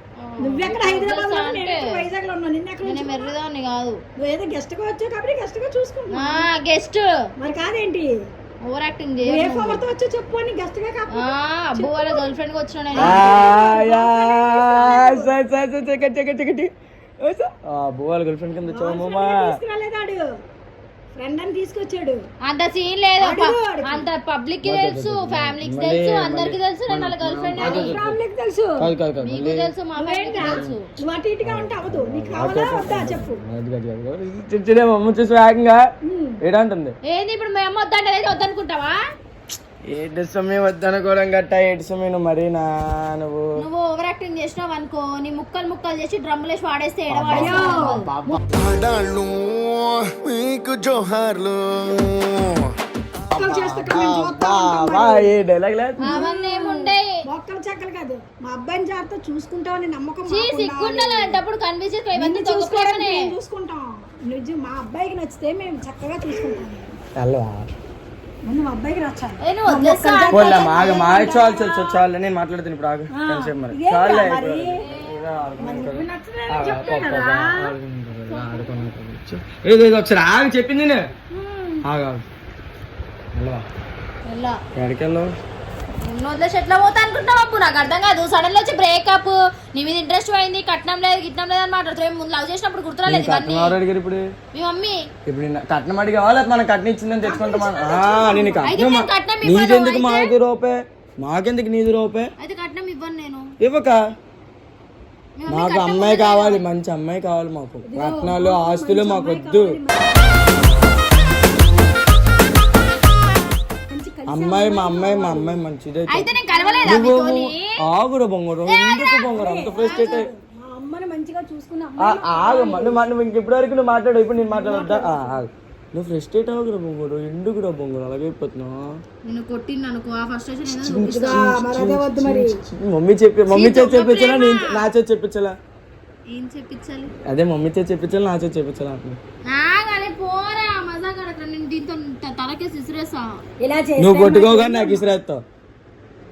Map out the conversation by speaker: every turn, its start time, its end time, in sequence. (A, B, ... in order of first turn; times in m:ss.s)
0:00.2-0:02.1 A
0:00.4-0:03.3 B
0:02.8-0:04.0 A
0:04.2-0:06.5 B
0:06.1-0:07.1 A
0:07.4-0:08.1 B
0:08.6-0:09.8 A
0:09.2-0:12.3 B
0:11.1-0:13.3 A
0:12.9-0:15.3 B
0:13.0-0:16.7 C
0:17.2-0:19.5 C
0:18.7-0:20.3 B
0:21.1-0:22.2 B
0:22.4-0:28.0 A
0:23.2-0:24.0 B
0:24.6-0:28.2 C
0:27.6-0:28.8 B
0:28.8-0:29.7 C
0:29.2-0:30.8 A
0:30.0-0:33.4 B
0:30.4-0:30.7 C
0:31.4-0:35.8 C
0:36.0-0:36.4 B
0:36.4-0:36.9 C
0:37.0-0:39.0 A
0:39.9-0:43.5 C
0:43.6-0:48.1 A
0:47.1-0:48.4 C
0:47.4-0:48.3 B
0:48.5-0:52.6 D
0:53.3-0:55.3 B
0:53.4-0:54.0 D
0:53.5-0:56.2 C
0:56.0-1:01.4 B
0:56.0-0:57.1 A
1:00.3-1:03.2 A
1:02.1-1:06.9 B
1:07.2-1:07.7 C
1:08.4-1:11.3 B
1:09.4-1:11.9 A
1:10.3-1:21.0 C
1:13.1-1:14.8 B
1:14.8-1:15.9 A
1:15.6-1:17.5 B
1:16.6-1:17.2 A
1:18.3-1:18.9 A
1:21.3-1:21.8 B
1:21.8-1:22.2 C
1:23.3-1:23.6 C
1:24.2-1:24.6 A
1:24.8-1:25.3 C
1:26.0-1:33.8 A
1:33.0-1:34.2 C
1:34.5-1:35.0 A
1:35.3-1:42.3 C
1:37.2-1:38.7 B
1:38.7-1:40.3 A
1:42.4-1:43.5 A
1:43.6-1:44.0 C
1:45.4-1:46.6 A
1:45.5-1:49.8 C
1:47.8-1:50.3 B
1:53.9-1:55.6 B
1:54.3-1:56.3 C
1:56.1-1:57.7 A
1:56.5-1:57.1 B
1:56.8-2:00.2 C
1:58.6-1:59.2 A
1:59.3-2:03.1 B
1:59.8-2:00.2 A
2:02.0-2:08.8 C
2:04.5-2:05.4 B
2:09.2-2:11.4 A
2:10.7-2:15.5 C
2:11.1-2:12.6 B
2:13.5-2:14.7 A
2:16.3-2:17.1 A
2:17.3-2:19.2 C
2:19.4-2:23.4 A
2:23.6-2:25.0 B
2:24.0-2:25.4 C